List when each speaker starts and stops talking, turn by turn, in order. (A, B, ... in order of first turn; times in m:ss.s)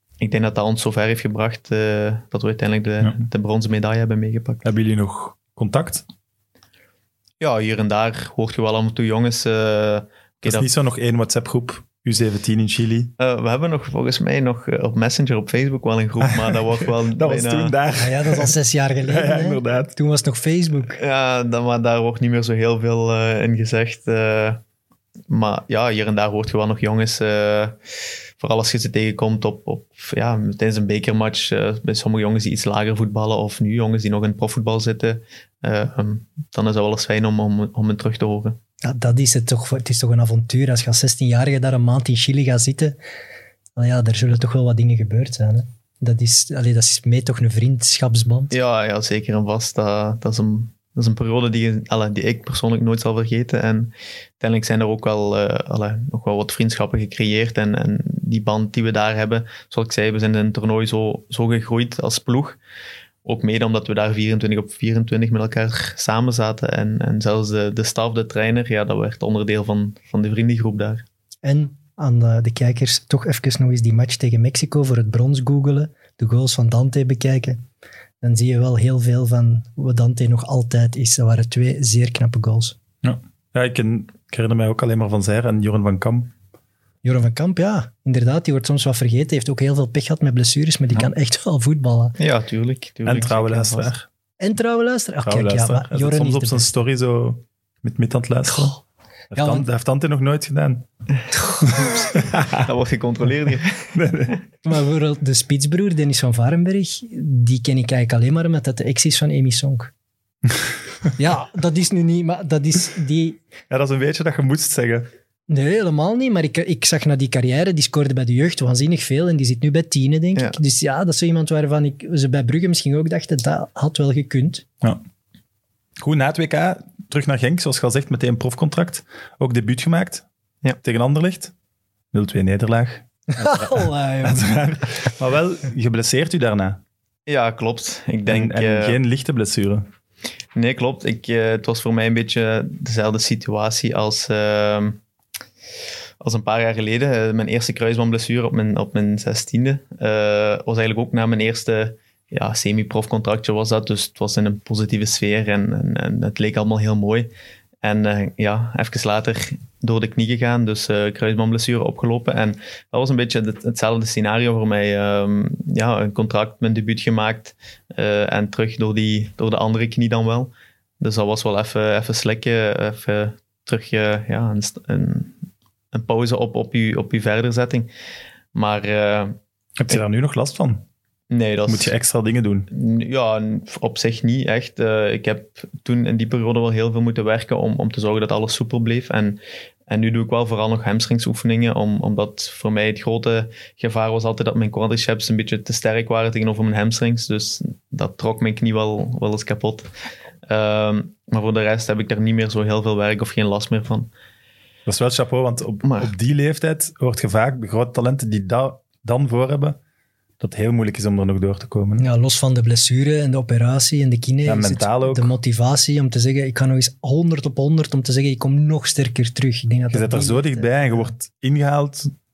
0:00.2-0:04.6 A
0:04.6-0:06.0 B
0:07.4-0:10.7 A
0:10.4-0:13.1 B
0:13.2-0:17.8 A
0:16.2-0:18.5 B
0:18.0-0:21.0 C
0:19.1-0:19.9 B
0:21.0-0:24.6 A
0:25.3-0:27.8 A
0:28.4-0:38.6 A
0:38.8-0:43.0 C
0:43.8-0:48.5 C
0:48.5-1:02.6 A
1:03.2-1:11.0 A
1:11.4-1:17.6 C
1:18.2-1:22.8 C
1:23.0-1:26.3 B
1:27.0-1:32.2 C
1:32.2-1:33.9 A
1:33.0-1:34.1 B
1:34.4-1:36.7 C
1:35.2-1:38.8 B
1:38.5-1:38.8 C
1:39.3-1:40.8 B
1:39.4-1:39.7 C
1:41.4-1:41.8 C
1:41.8-1:44.4 A
1:42.1-1:42.6 B
1:43.9-1:44.4 B
1:44.6-1:49.9 C
1:51.2-1:53.4 C
1:53.7-1:55.1 B
1:55.5-2:04.7 C
2:06.0-2:10.3 B
2:10.8-2:11.5 B
2:12.1-2:16.8 B
2:13.4-2:14.5 C
2:17.3-2:19.0 A
2:18.3-2:19.9 B
2:20.6-2:25.0 A
2:26.2-2:37.3 A
2:37.8-2:55.4 A
2:55.9-2:57.9 A
2:58.5-2:59.4 A
2:59.8-3:00.8 B
3:01.3-3:01.9 A
3:01.7-3:02.7 B
3:02.7-3:19.9 A
3:20.5-3:24.1 A
3:24.9-3:29.8 B
3:25.8-3:26.1 A
3:30.4-3:32.0 B
3:32.0-3:41.1 C
3:34.4-3:35.3 B
3:39.9-3:42.1 B